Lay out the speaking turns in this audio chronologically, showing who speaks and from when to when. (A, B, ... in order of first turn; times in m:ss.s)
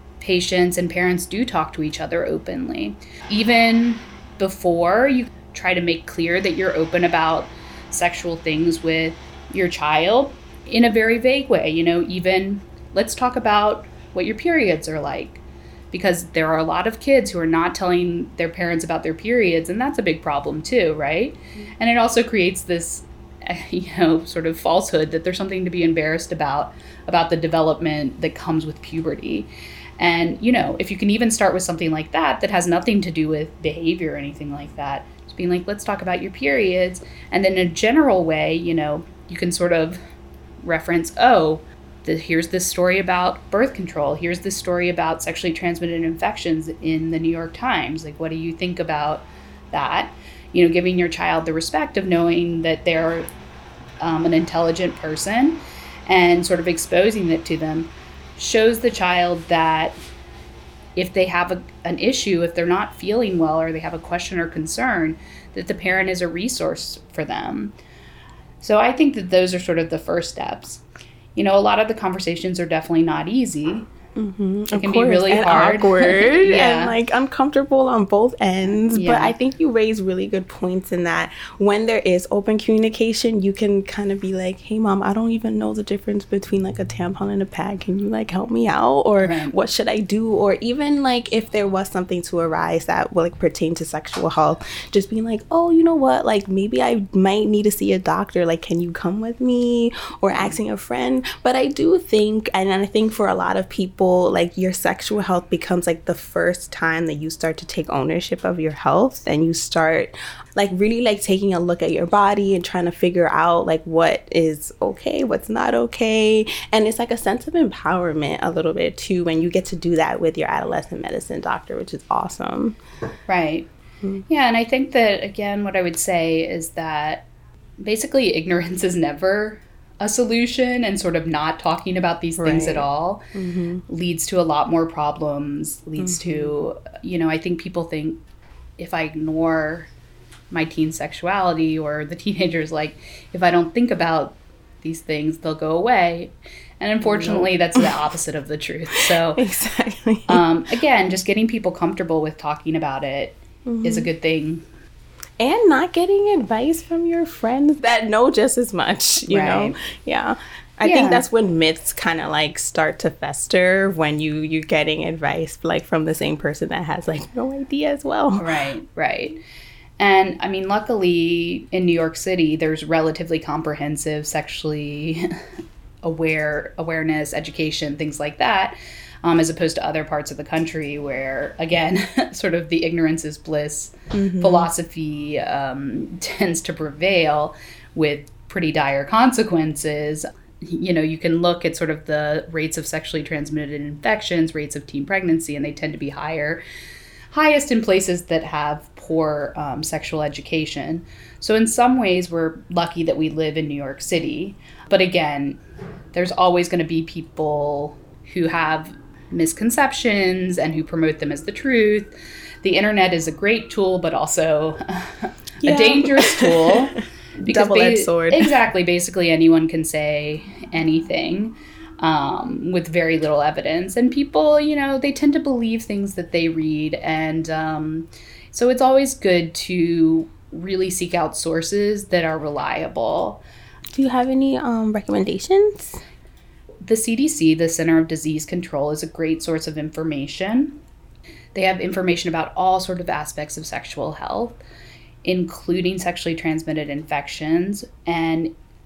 0:00.2-0:40.0 A
0:40.6-0:53.3 A
0:54.0-1:00.0 A
1:01.0-1:07.7 A
1:08.6-1:10.8 A
1:11.3-1:13.9 A
1:14.2-2:02.8 B
1:14.7-1:16.9 A
1:18.9-1:19.4 A
1:29.2-1:29.6 A
2:03.3-2:03.7 A
2:04.3-2:07.3 A
2:07.8-2:13.2 A
2:12.4-2:13.8 B
2:13.9-2:18.2 A
2:16.0-2:16.5 B
2:18.8-2:19.9 A
2:20.5-2:29.4 A
2:27.1-2:27.9 B
2:29.3-2:30.4 B
2:30.3-2:34.6 A
2:33.6-2:34.1 B
2:35.4-2:48.5 B
2:39.2-2:39.8 A
2:40.8-2:41.2 A
2:48.4-2:49.4 A
2:50.0-2:55.3 A
2:56.0-3:16.6 A
3:04.1-3:04.7 B
3:17.3-3:25.6 A
3:26.1-3:53.4 A
3:35.6-3:36.8 B
3:37.4-3:38.5 B
3:53.9-3:56.0 B
3:56.8-4:00.8 A
4:01.5-4:04.6 A
4:05.2-4:08.5 A